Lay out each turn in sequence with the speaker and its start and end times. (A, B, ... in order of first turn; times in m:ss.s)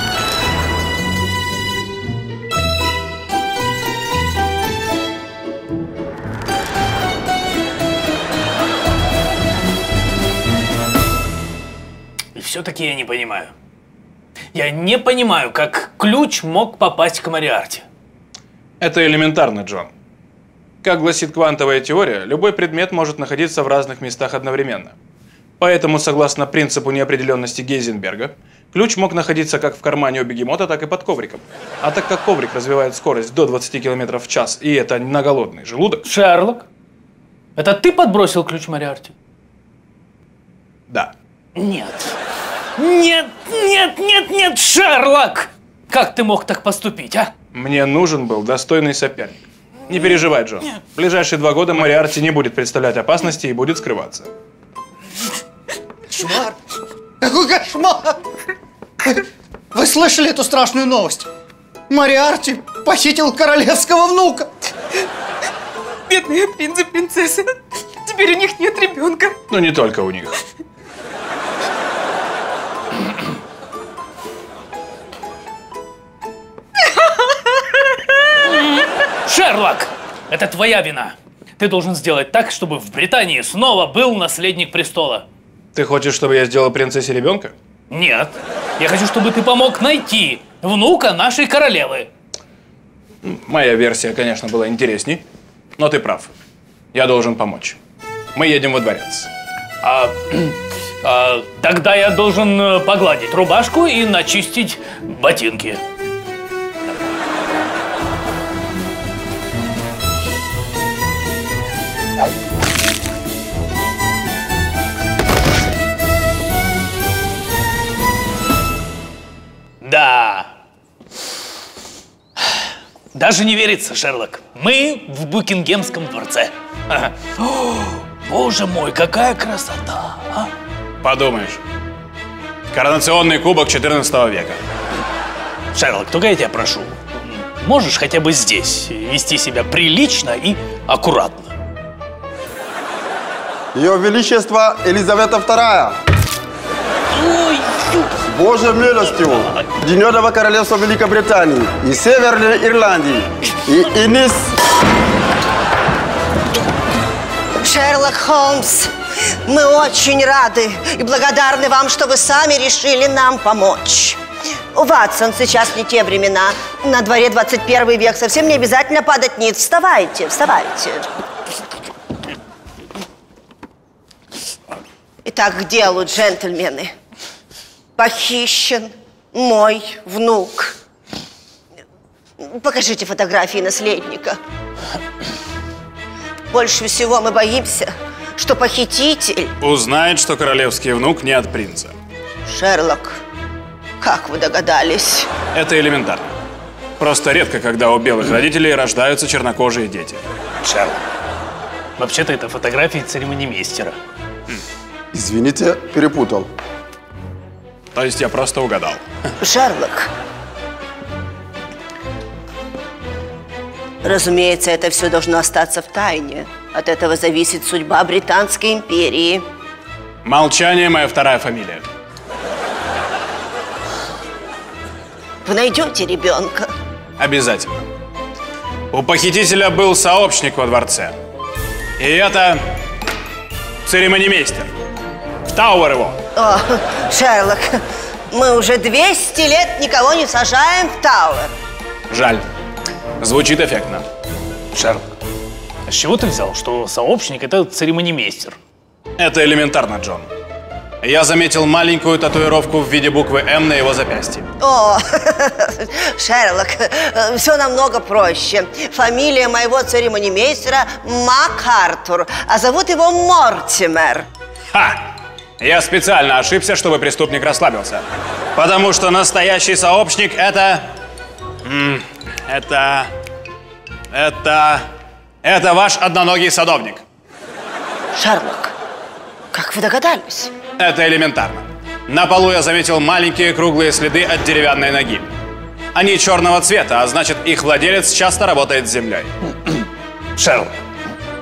0:12.3-0:13.5 A
0:14.5-0:17.8 A
0:18.8-0:19.9 B
0:20.8-0:24.9 B
0:25.6-0:36.1 B
0:36.0-0:36.7 A
0:37.6-0:39.1 A
0:41.6-0:42.1 A
0:42.8-0:47.3 A
0:47.5-0:54.3 B
0:56.1-0:56.6 C
0:57.2-0:58.2 C
0:59.7-1:01.3 C
1:01.9-1:04.7 C
1:06.1-1:07.5 D
1:08.0-1:09.4 D
1:09.5-1:10.4 B
1:19.2-1:25.2 A
1:25.7-1:27.5 B
1:27.9-1:32.1 A
1:33.2-1:35.2 B
1:35.8-1:36.3 B
1:36.9-1:37.8 B
1:38.3-1:39.3 B
1:39.8-1:45.8 A
1:59.8-2:00.5 A
2:03.1-2:10.5 A
2:11.0-2:11.6 B
2:12.7-2:14.6 B
2:15.7-2:21.5 A
2:23.7-2:26.0 E
2:27.2-2:28.0 A
2:28.3-2:34.5 E
2:37.6-2:38.9 F
2:39.4-2:44.2 F
2:44.7-2:51.1 F
2:55.2-2:56.9 F
2:58.0-3:00.8 F
3:02.4-3:04.4 F
3:06.5-3:09.5 F
3:09.6-3:11.9 B
3:12.5-3:13.2 F
3:14.0-3:15.3 F
3:15.5-3:16.4 B
3:17.0-3:20.2 B
3:20.6-3:21.0 A
3:22.0-3:24.0 A
3:25.1-3:26.5 E
3:27.9-3:29.0 B
3:29.4-3:30.1 F
3:34.0-3:39.4 F
3:40.2-3:41.8 B
3:45.4-3:46.7 F
3:47.2-3:47.9 B
3:48.9-3:51.2 B
3:52.0-3:52.6 B
3:53.8-3:54.7 B
3:55.4-3:56.2 B
3:56.4-4:01.5 F
4:02.1-4:02.4 B
4:03.2-4:04.0 B
4:04.7-4:05.1 A
4:05.9-4:08.6 A
4:09.2-4:10.3 B
4:11.0-4:14.5 B
4:14.6-4:24.3 F
4:24.7-4:30.9 B
4:31.6-4:33.1 B
4:34.1-4:34.8 B
4:35.4-4:37.0 B
4:38.1-4:38.7 F
4:39.5-4:40.5 F
4:40.8-4:45.3 B
4:45.9-4:49.3 B
4:50.4-4:50.7 A